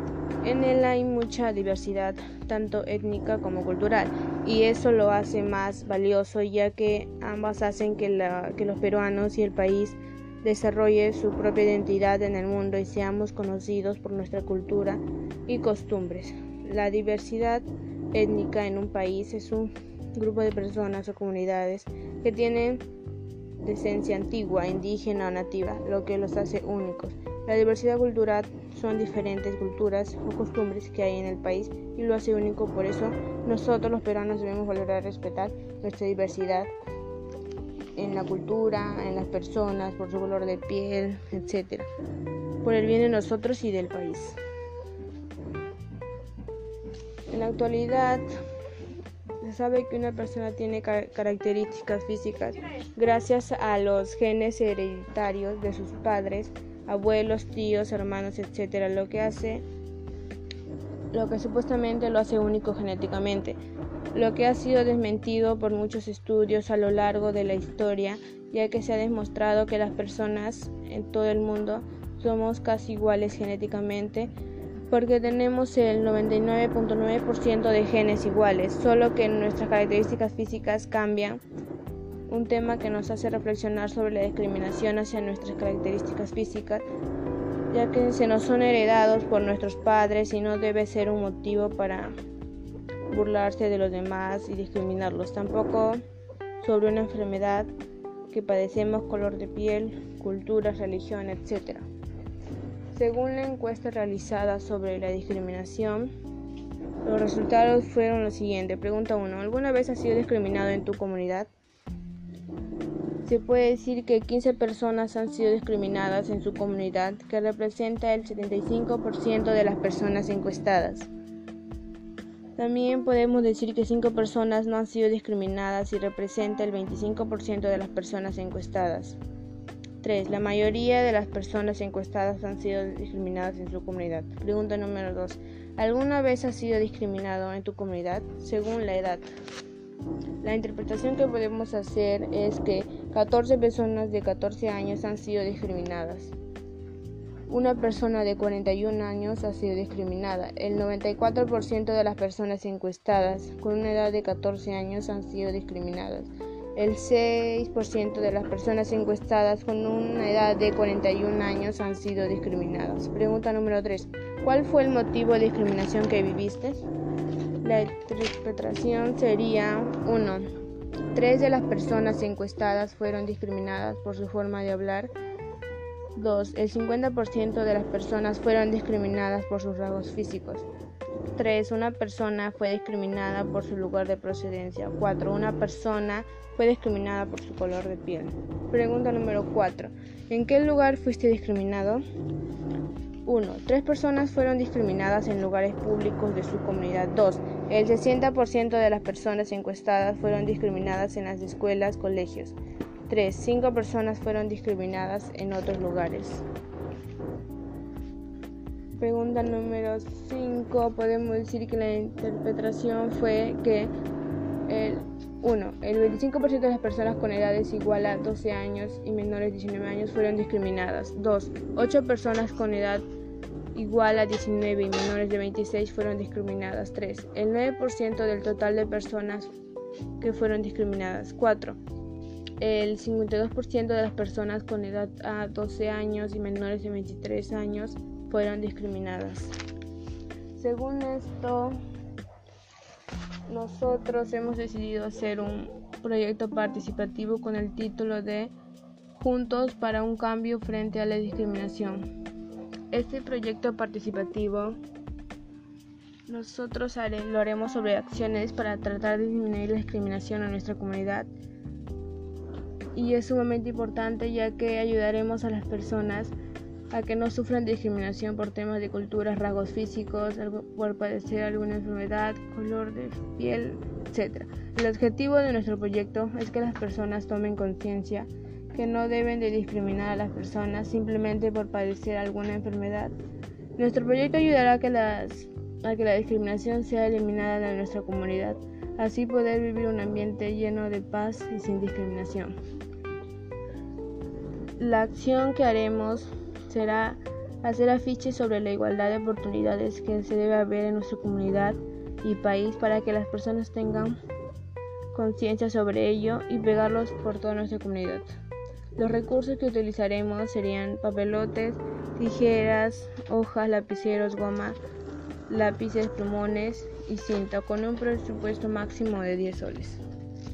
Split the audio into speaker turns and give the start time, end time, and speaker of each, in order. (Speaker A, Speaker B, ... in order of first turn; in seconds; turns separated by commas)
Speaker A: 0.4-22.8, Speaker A: 23.6-36.7, Speaker A: 38.0-41.9, Speaker A: 42.6-44.4, Speaker A: 47.3-48.3, Speaker A: 49.4-59.6, Speaker A: 61.1-63.6, Speaker A: 64.1-74.3, Speaker A: 74.9-81.4, Speaker A: 82.3-86.9, Speaker A: 87.7-92.2, Speaker A: 93.1-96.0, Speaker A: 96.6-97.7, Speaker A: 98.3-101.9, Speaker A: 102.9-106.1, Speaker A: 107.0-111.5, Speaker A: 113.2-121.1, Speaker A: 122.6-129.2, Speaker A: 130.0-139.2, Speaker A: 140.4-146.3, Speaker A: 147.5-166.9, Speaker A: 167.6-170.5, Speaker A: 171.1-175.1, Speaker A: 176.2-180.7, Speaker A: 181.3-192.0, Speaker A: 193.3-202.6, Speaker A: 203.1-206.4, Speaker A: 209.0-213.9, Speaker A: 214.7-223.0, Speaker A: 223.7-229.5, Speaker A: 230.2-231.8, Speaker A: 232.6-239.5, Speaker A: 240.6-241.8, Speaker A: 243.5-248.5, Speaker A: 249.2-252.1, Speaker A: 252.9-254.8, Speaker A: 256.3-261.3, Speaker A: 262.9-266.3, Speaker A: 266.9-283.1, Speaker A: 283.8-292.5, Speaker A: 294.8-304.2, Speaker A: 305.1-308.3, Speaker A: 309.0-314.8, Speaker A: 315.5-320.0